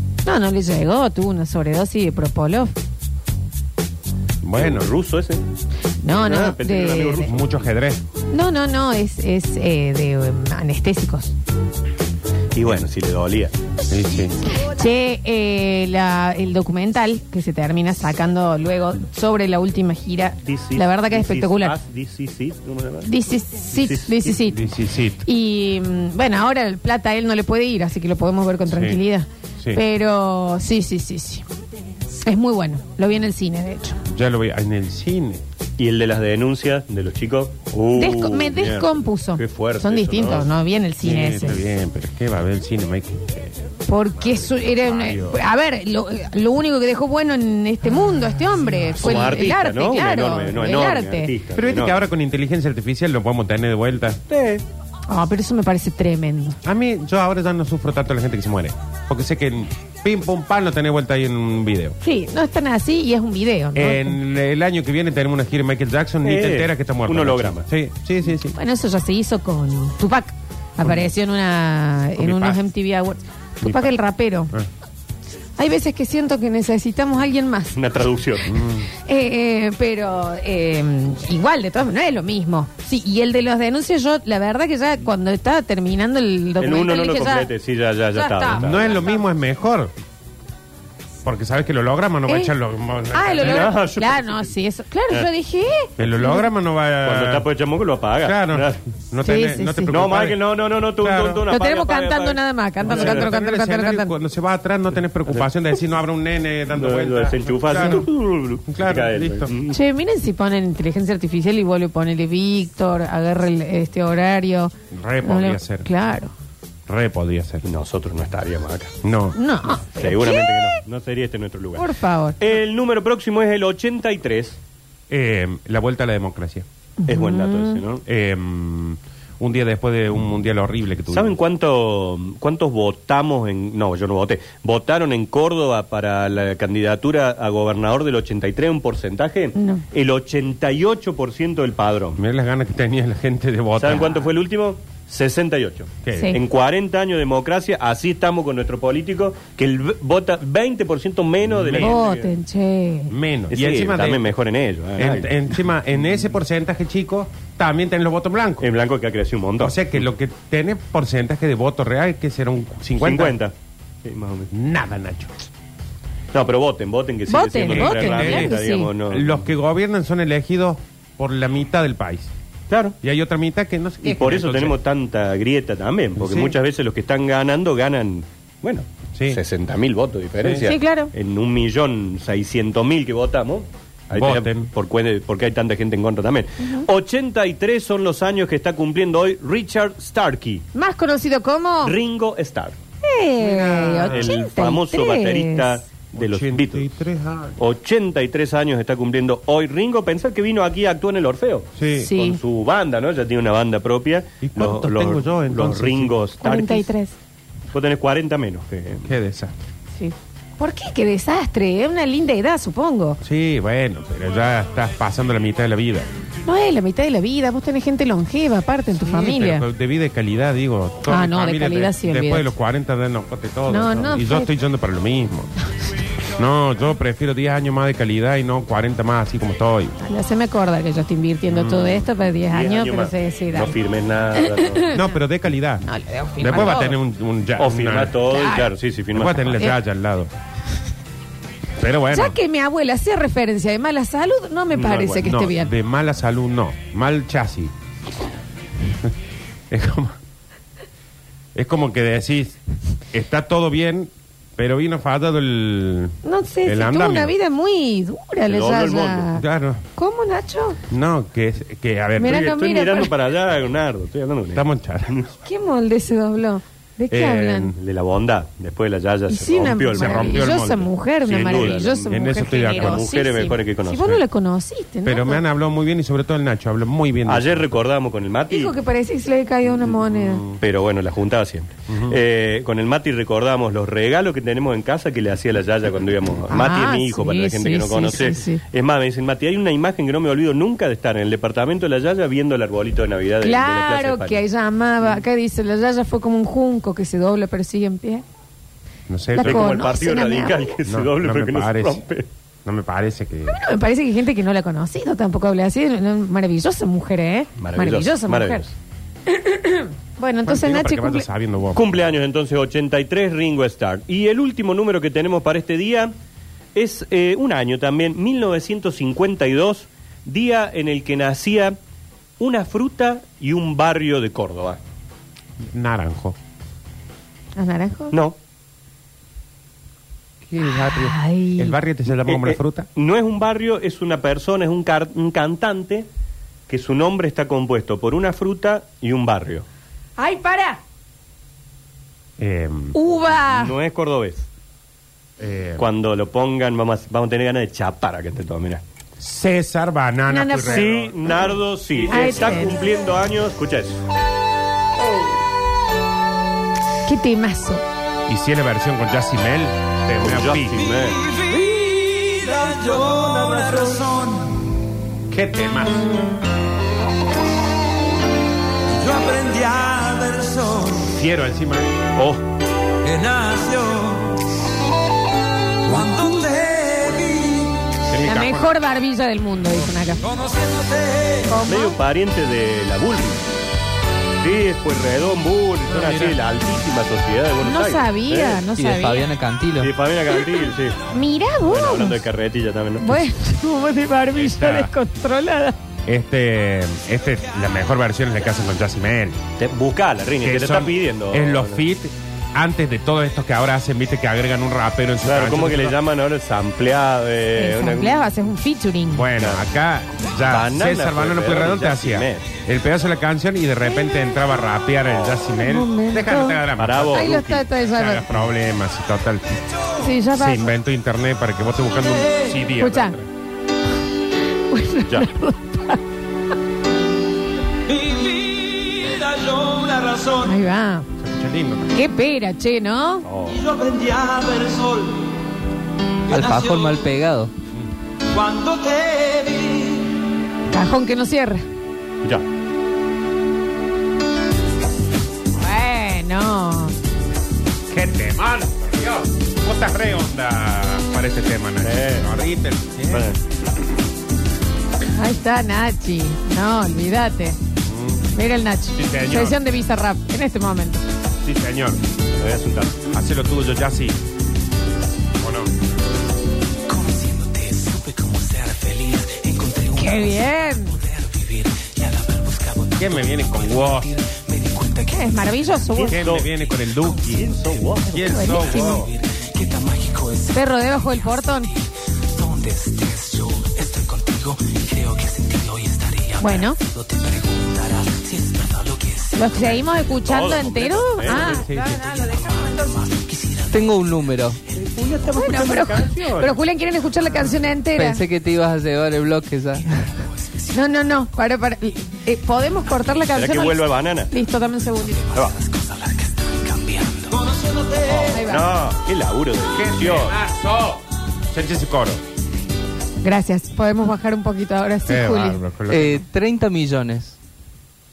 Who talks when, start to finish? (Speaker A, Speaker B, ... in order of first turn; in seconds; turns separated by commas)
Speaker A: 0.2-2.7, Speaker B: 4.4-4.9, Speaker C: 4.5-5.4, Speaker A: 6.0-7.3, Speaker C: 6.1-7.5, Speaker B: 7.2-8.0, Speaker A: 8.3-11.3, Speaker C: 12.5-13.5, Speaker B: 13.9-14.4, Speaker A: 14.5-21.8, Speaker C: 20.4-23.1, Speaker A: 23.1-24.7, Speaker C: 23.7-24.4, Speaker B: 24.5-25.2, Speaker A: 25.2-31.4, Speaker B: 28.7-29.0, Speaker A: 32.2-34.0, Speaker B: 34.1-35.4, Speaker C: 35.8-40.5, Speaker A: 38.0-41.6, Speaker B: 41.0-45.4, Speaker A: 43.9-51.3, Speaker B: 48.8-49.1, Speaker C: 49.0-52.0, Speaker B: 51.5-54.2, Speaker C: 54.3-54.6, Speaker A: 55.1-56.6, Speaker B: 56.6-62.0, Speaker A: 62.0-64.2, Speaker B: 63.7-68.5, Speaker C: 66.2-67.7, Speaker A: 68.5-74.5, Speaker B: 72.2-72.6, Speaker B: 73.6-73.9, Speaker A: 75.6-77.8, Speaker C: 77.7-78.5, Speaker B: 78.5-78.9, Speaker A: 78.9-87.5, Speaker C: 86.6-88.9, Speaker A: 88.1-89.2, Speaker B: 88.5-89.9, Speaker B: 91.2-93.7, Speaker A: 92.3-92.5, Speaker A: 93.1-96.5, Speaker C: 93.4-94.5, Speaker B: 96.0-97.5, Speaker C: 97.0-98.8, Speaker B: 98.2-100.4, Speaker A: 99.2-100.0, Speaker C: 99.9-103.3, Speaker B: 101.0-101.4, Speaker A: 101.5-104.1, Speaker B: 102.8-108.1, Speaker C: 106.8-109.8, Speaker B: 108.7-109.5, Speaker A: 109.7-116.3, Speaker B: 114.9-115.8, Speaker B: 116.9-117.7, Speaker C: 117.6-119.0, Speaker B: 119.0-119.4, Speaker A: 119.3-120.8, Speaker C: 120.0-124.6, Speaker A: 121.8-122.4, Speaker B: 125.1-126.7, Speaker A: 127.0-127.8, Speaker C: 127.1-128.0, Speaker B: 128.0-131.3, Speaker C: 131.1-142.2, Speaker A: 139.5-139.8, Speaker B: 142.2-144.2, Speaker C: 143.8-152.3, Speaker B: 146.0-146.3, Speaker A: 146.1-146.4, Speaker B: 151.4-152.0, Speaker A: 151.8-153.1, Speaker B: 153.1-154.3, Speaker C: 153.5-155.4, Speaker B: 155.0-158.7, Speaker C: 158.6-159.8, Speaker B: 159.6-163.3, Speaker C: 163.0-163.5, Speaker C: 164.0-164.5, Speaker B: 164.5-165.4, Speaker C: 166.3-169.4, Speaker A: 167.3-168.9, Speaker B: 167.6-172.3, Speaker C: 172.7-172.9, Speaker B: 173.0-174.8, Speaker C: 174.0-190.7, Speaker B: 176.2-176.6, Speaker B: 179.2-179.4, Speaker B: 180.4-180.7, Speaker A: 180.6-181.1, Speaker B: 184.1-184.7, Speaker A: 190.7-191.9, Speaker C: 191.8-192.8, Speaker A: 193.0-195.8, Speaker B: 193.4-194.3, Speaker C: 194.1-196.9, Speaker B: 196.1-197.6, Speaker C: 197.6-206.9, Speaker B: 201.8-202.1, Speaker A: 201.9-202.4, Speaker B: 204.4-206.1, Speaker A: 206.4-207.1, Speaker C: 207.7-209.1, Speaker B: 209.0-209.5, Speaker A: 210.0-213.2, Speaker B: 213.2-216.1, Speaker A: 216.4-219.7, Speaker B: 219.0-225.5, Speaker A: 221.1-222.5, Speaker A: 223.7-224.5, Speaker B: 226.3-229.9, Speaker A: 230.0-233.7, Speaker B: 231.5-232.1, Speaker C: 232.5-234.9, Speaker A: 234.4-235.0, Speaker B: 234.9-235.8, Speaker A: 235.8-236.9, Speaker B: 236.4-238.2, Speaker C: 237.6-239.7, Speaker A: 238.3-238.7, Speaker B: 239.1-240.3, Speaker B: 241.8-242.4, Speaker A: 242.1-245.7, Speaker C: 244.7-245.2, Speaker B: 245.2-247.7, Speaker B: 249.7-250.2, Speaker B: 251.5-252.6, Speaker B: 253.1-257.3, Speaker A: 256.2-259.4, Speaker C: 258.5-259.3, Speaker B: 259.3-259.8, Speaker A: 259.9-260.8, Speaker B: 260.9-262.5, Speaker A: 262.2-263.1, Speaker C: 262.2-265.3, Speaker B: 264.5-265.2, Speaker A: 265.4-267.7, Speaker B: 267.1-267.8, Speaker C: 267.8-270.5, Speaker A: 269.3-275.4, Speaker B: 269.9-273.1, Speaker C: 271.2-274.1, Speaker B: 275.0-277.7, Speaker C: 277.2-278.7, Speaker A: 278.5-280.4, Speaker B: 280.1-280.6, Speaker C: 280.6-294.4, Speaker B: 281.9-282.2, Speaker A: 286.5-288.6, Speaker A: 293.4-298.2, Speaker B: 299.1-299.8, Speaker A: 299.3-300.7, Speaker C: 299.4-302.3, Speaker B: 300.9-302.0, Speaker B: 302.6-303.6, Speaker A: 303.5-308.6, Speaker C: 307.6-308.7, Speaker A: 309.3-311.3, Speaker B: 310.4-312.1, Speaker C: 311.7-316.1, Speaker C: 316.7-321.8, Speaker C: 322.4-324.8, Speaker B: 325.6-326.4, Speaker A: 327.6-328.1, Speaker B: 330.4-332.9, Speaker A: 330.6-331.7, Speaker C: 332.2-336.1, Speaker C: 336.7-339.6, Speaker A: 340.2-340.8, Speaker B: 342.4-343.0, Speaker A: 342.9-343.7, Speaker C: 343.3-344.5, Speaker B: 345.4-345.9, Speaker C: 345.8-348.8, Speaker B: 349.2-351.4, Speaker A: 350.3-350.9, Speaker C: 350.7-354.0, Speaker A: 352.1-352.8, Speaker A: 357.1-357.8, Speaker B: 358.3-360.9, Speaker C: 360.2-361.2, Speaker D: 360.8-364.6, Speaker C: 362.6-364.0, Speaker B: 365.3-366.1, Speaker D: 368.9-371.1, Speaker B: 371.1-372.1, Speaker C: 372.1-372.4, Speaker D: 373.0-374.4, Speaker D: 375.8-377.9, Speaker B: 378.1-378.7, Speaker A: 378.2-380.2, Speaker D: 380.2-381.6, Speaker A: 381.5-382.0, Speaker C: 381.7-383.4, Speaker C: 384.4-388.6, Speaker B: 385.9-386.4, Speaker A: 387.6-389.3, Speaker E: 388.8-389.9, Speaker C: 389.8-391.0, Speaker A: 391.1-392.2, Speaker C: 391.6-393.3, Speaker A: 393.0-395.8, Speaker B: 394.4-394.9, Speaker B: 396.1-399.4, Speaker C: 399.6-401.8, Speaker B: 400.4-405.9, Speaker C: 405.2-408.3, Speaker A: 407.6-409.3, Speaker B: 409.1-419.6, Speaker C: 409.4-409.6, Speaker C: 410.3-412.5, Speaker A: 415.6-416.6, Speaker C: 416.8-417.5, Speaker A: 417.1-418.3, Speaker A: 420.0-420.7, Speaker B: 420.3-423.3, Speaker D: 422.0-422.6, Speaker A: 422.8-423.2, Speaker A: 424.4-426.0, Speaker D: 427.9-430.6, Speaker A: 430.4-431.1, Speaker B: 431.2-431.9, Speaker A: 431.9-433.3, Speaker C: 433.2-433.6, Speaker D: 433.4-435.3, Speaker D: 436.3-437.1, Speaker E: 436.3-437.5, Speaker D: 438.3-440.1, Speaker A: 440.7-441.6, Speaker A: 445.6-446.9, Speaker B: 447.9-453.3, Speaker C: 451.8-452.3, Speaker C: 453.1-453.4, Speaker A: 455.1-457.6, Speaker B: 457.8-458.3, Speaker A: 458.3-461.0, Speaker B: 458.9-459.6, Speaker B: 461.4-462.0, Speaker C: 462.3-463.1, Speaker B: 463.1-464.2, Speaker B: 465.4-465.7, Speaker F: 466.9-475.9, Speaker A: 469.9-471.0, Speaker B: 473.0-474.1, Speaker A: 475.1-476.2, Speaker C: 475.9-476.5, Speaker B: 476.1-477.5, Speaker F: 476.6-477.3, Speaker C: 477.2-478.4, Speaker B: 478.1-479.1, Speaker A: 478.2-479.0, Speaker F: 478.4-490.7, Speaker A: 480.5-481.7, Speaker A: 486.4-486.8, Speaker A: 489.4-492.9, Speaker C: 490.2-491.6, Speaker F: 491.2-493.9, Speaker B: 491.4-492.1, Speaker E: 493.7-494.6, Speaker C: 494.7-496.6, Speaker F: 494.8-495.0, Speaker A: 495.3-498.2, Speaker E: 497.9-500.1, Speaker A: 500.7-505.2, Speaker C: 503.3-504.3, Speaker F: 504.9-507.4, Speaker D: 507.3-508.5, Speaker A: 508.3-508.7, Speaker C: 508.4-510.4, Speaker B: 509.7-512.2, Speaker A: 513.2-515.6, Speaker B: 515.1-516.2, Speaker E: 515.9-517.4